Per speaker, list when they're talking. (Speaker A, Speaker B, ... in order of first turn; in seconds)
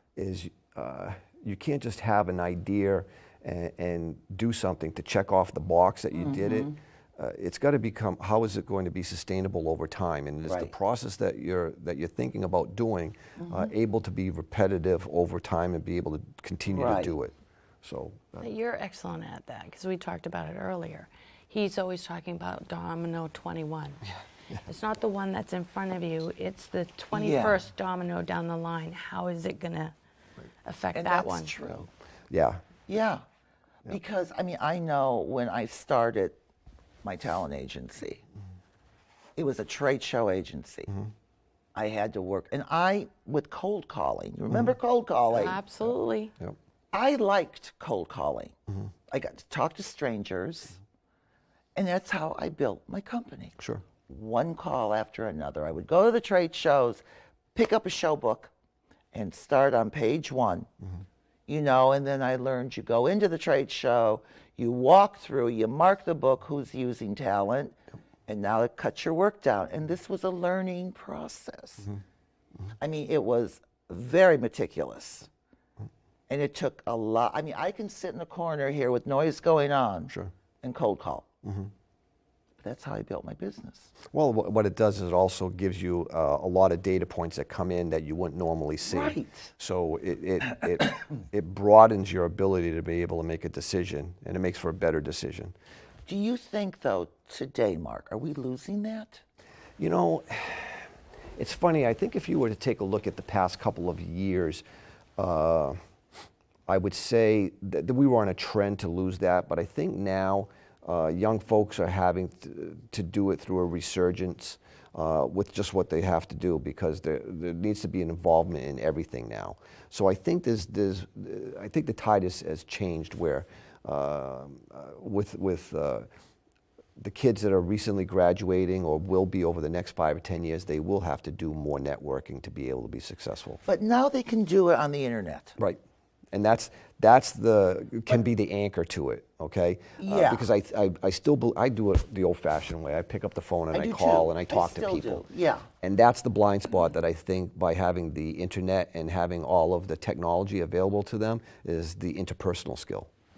Speaker A: 0.2-18.5, 32.3-32.6, 81.4-81.7, 84.1-95.5, 99.8-104.6, 105.2-105.8, 106.7-126.1, 127.0-133.6, 136.3-145.2, 145.8-153.1
Speaker B: 10.4-10.7, 16.7-17.1, 27.1-27.6, 30.9-31.9, 32.9-33.2, 33.9-36.4, 37.0-38.2, 39.4-41.0, 41.8-45.6, 46.9-48.5, 49.1-50.8, 51.8-53.6, 54.1-57.0, 57.5-58.5, 59.1-60.7, 61.5-67.8, 68.3-71.9, 72.8-75.3, 76.3-80.1, 80.6-81.3, 82.6-83.9, 88.8-89.5, 96.1-99.2, 133.7-135.6, 140.0-140.5, 143.7-145.7
Speaker C: 18.4-24.1, 24.7-29.9, 30.6-31.5, 45.3-46.3